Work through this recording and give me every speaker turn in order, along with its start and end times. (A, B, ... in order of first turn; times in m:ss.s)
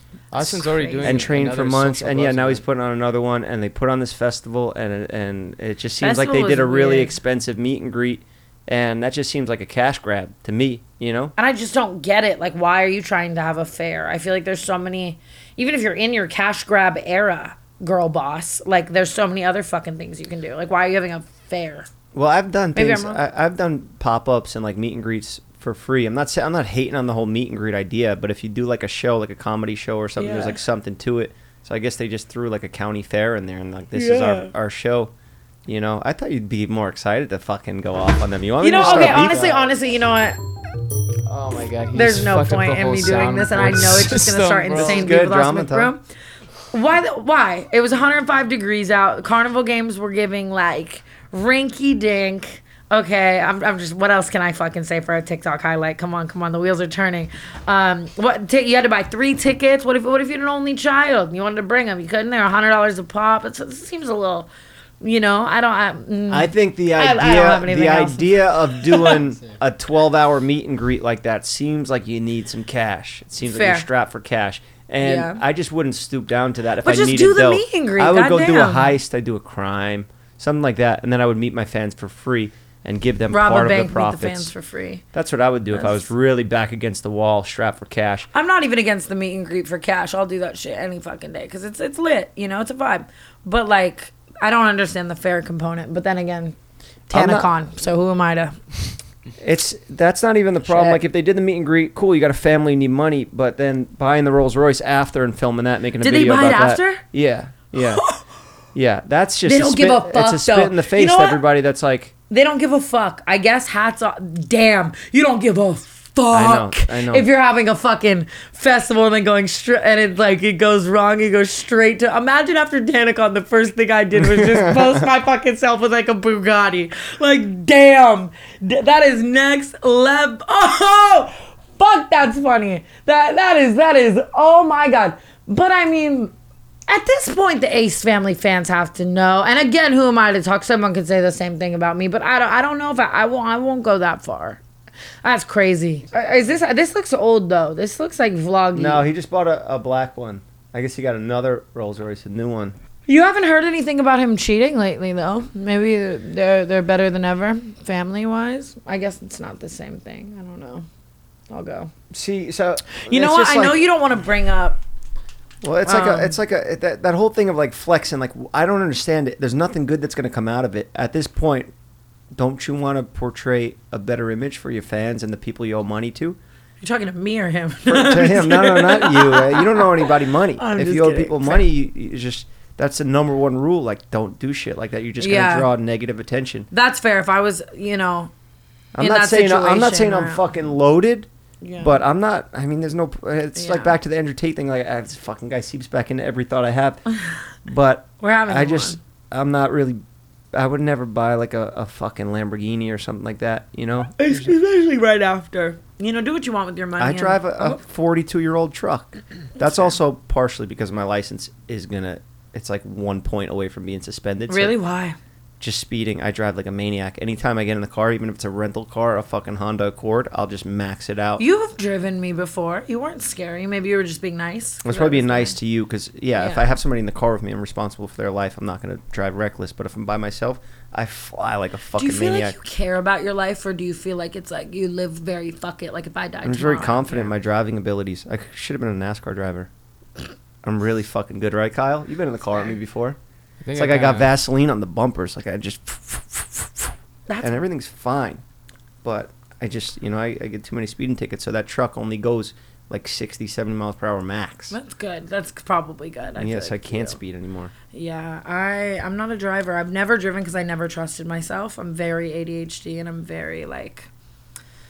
0:00.3-0:02.6 A
0:00.4-0:01.3 B
0:01.0-0:11.3 C
0:06.0-0:07.1 B
0:11.4-0:21.9 B
0:22.1-0:35.1 C
0:22.8-0:23.2 B
0:30.2-0:30.6 B
0:33.9-0:34.5 B
0:35.7-0:39.4 C
0:38.6-0:40.4 B
0:38.7-0:39.7 A
0:41.3-0:45.2 A
0:41.9-0:46.0 B
0:44.7-0:45.9 C
0:46.7-1:04.5 B
1:05.0-1:09.2 B
1:06.3-1:24.5 C
1:13.4-1:13.9 B
1:15.0-1:15.4 B
1:16.8-1:19.0 B
1:23.3-1:25.0 B
1:25.1-1:28.3 C
1:25.7-1:26.0 B
1:28.3-1:36.6 B
1:37.1-1:37.5 C
1:37.1-1:38.6 B
1:39.4-1:48.0 C
1:40.7-1:41.0 B
1:46.0-1:47.0 B
1:47.7-1:48.2 B
1:48.7-1:52.1 C
1:49.4-1:51.4 B
1:52.3-2:16.3 B
1:56.3-1:57.3 C
2:04.2-2:04.9 C
2:16.9-2:24.6 B
2:25.2-2:29.0 B
2:28.7-2:32.7 C
2:33.1-2:40.9 B
2:41.5-2:41.9 B
2:42.1-2:43.8 C
2:42.9-2:44.8 B
2:45.6-2:51.7 C
2:45.8-2:46.4 B
2:52.4-2:56.4 C
2:56.8-3:01.7 B
2:57.9-3:06.7 C
3:05.2-3:05.7 B
3:06.7-3:08.3 B
3:09.0-3:11.3 C
3:09.0-3:10.5 B
3:11.6-3:12.0 B
3:11.8-3:17.0 C
3:13.6-3:14.0 B
3:17.7-3:20.0 C
3:18.2-3:19.0 B
3:20.5-3:24.6 C
3:24.2-3:27.8 B
3:27.0-3:34.8 C
3:34.5-3:35.2 B
3:35.6-3:41.4 C
3:41.4-3:45.6 B
3:44.8-3:52.6 C
3:46.4-3:46.8 B
3:52.0-3:57.3 B
3:56.4-3:59.7 C
4:00.6-4:03.2 C
4:03.6-4:04.3 A
4:03.7-4:08.4 C
4:09.0-4:14.8 C
4:14.7-4:17.2 B
4:16.4-4:17.7 C
4:17.9-4:24.1 B